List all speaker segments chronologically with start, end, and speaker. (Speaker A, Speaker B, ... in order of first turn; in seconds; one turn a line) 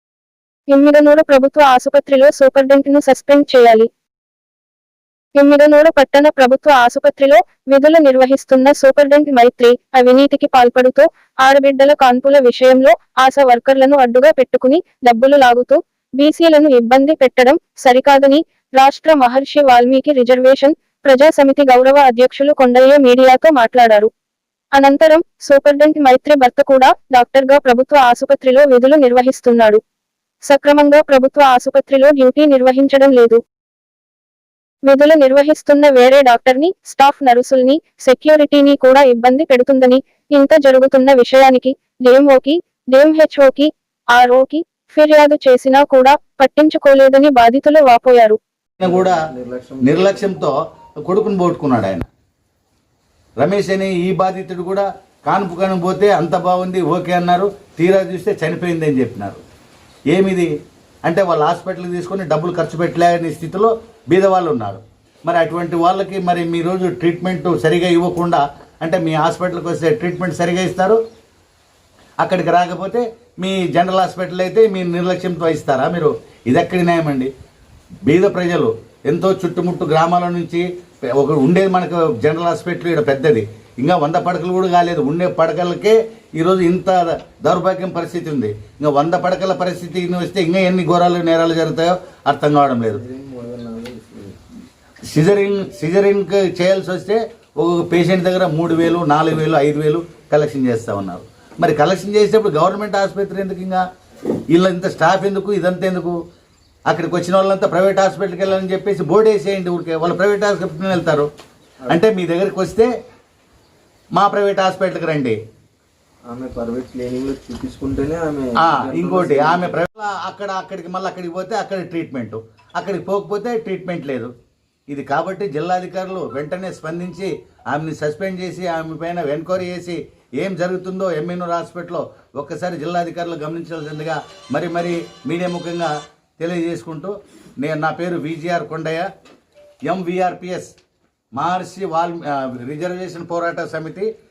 Speaker A: 0.7-3.9
Speaker A: 5.3-24.1
Speaker A: 24.7-29.8
Speaker A: 30.4-33.4
Speaker A: 34.9-48.4
Speaker B: 48.8-49.2
Speaker C: 48.8-50.4
Speaker B: 49.8-52.0
Speaker B: 53.4-59.4
Speaker B: 60.1-60.5
Speaker B: 61.0-71.0
Speaker B: 72.2-77.3
Speaker B: 78.0-80.7
Speaker B: 81.2-93.0
Speaker C: 92.9-94.3
Speaker B: 95.1-103.8
Speaker B: 104.5-106.2
Speaker B: 106.9-111.3
Speaker B: 111.9-112.9
Speaker B: 114.1-115.3
Speaker C: 116.3-119.8
Speaker B: 118.6-124.3
Speaker B: 124.9-139.1
Speaker B: 139.8-140.7
Speaker B: 141.3-144.1